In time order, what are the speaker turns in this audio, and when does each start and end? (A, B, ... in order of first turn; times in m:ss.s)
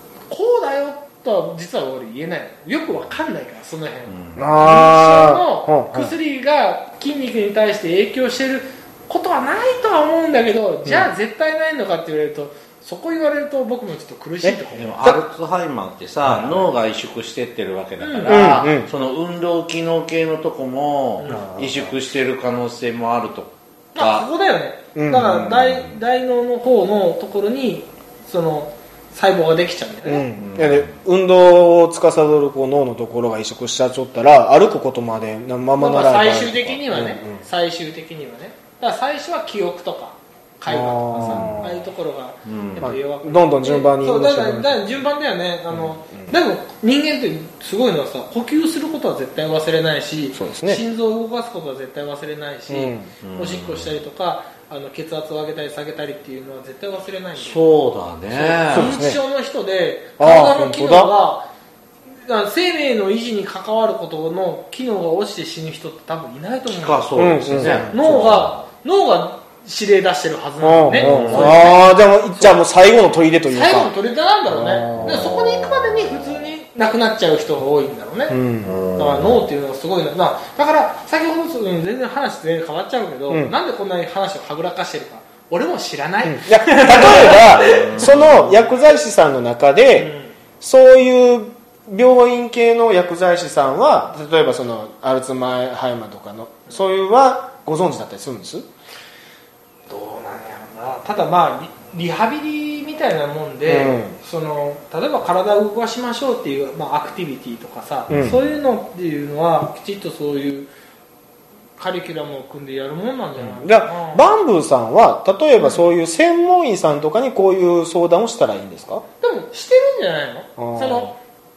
0:00.3-0:15.2 A
0:04.1-0:04.5 B
0:04.4-0:06.1 C
0:14.4-0:15.2 C
0:14.8-0:24.3 B
0:16.3-0:16.7 C
0:18.0-0:18.6 A
0:18.3-0:18.9 C
0:21.2-0:21.5 A
0:21.2-0:22.0 C
0:24.0-0:30.3 A
0:25.0-0:25.9 C
0:30.0-0:37.4 C
0:30.4-0:30.9 B
0:35.8-0:57.7 A
0:40.7-0:41.8 C
0:41.2-0:41.6 B
0:42.5-0:42.9 B
0:42.8-0:45.0 C
0:45.7-0:46.3 C
0:50.3-0:50.8 C
0:52.7-0:53.1 C
0:53.2-0:54.0 B
0:57.4-0:58.9 B
0:58.3-1:01.5 A
0:58.7-0:59.2 C
1:00.2-1:01.1 C
1:02.3-1:12.6 A
1:06.7-1:08.7 B
1:07.2-1:08.3 C
1:10.6-1:13.9 C
1:10.9-1:11.7 B
1:13.5-1:18.4 A
1:14.5-1:15.3 C
1:14.9-1:16.3 B
1:18.3-1:18.8 C
1:18.6-1:19.5 B
1:19.0-1:27.9 A
1:23.3-1:23.5 C
1:26.2-1:38.7 C
1:27.0-1:28.6 B
1:29.9-1:30.4 A
1:39.9-1:50.7 A
1:43.7-1:44.2 C
1:48.1-1:48.4 C
1:51.8-1:54.3 A
1:53.5-1:59.0 C
1:59.2-2:01.2 A
2:00.6-2:01.1 C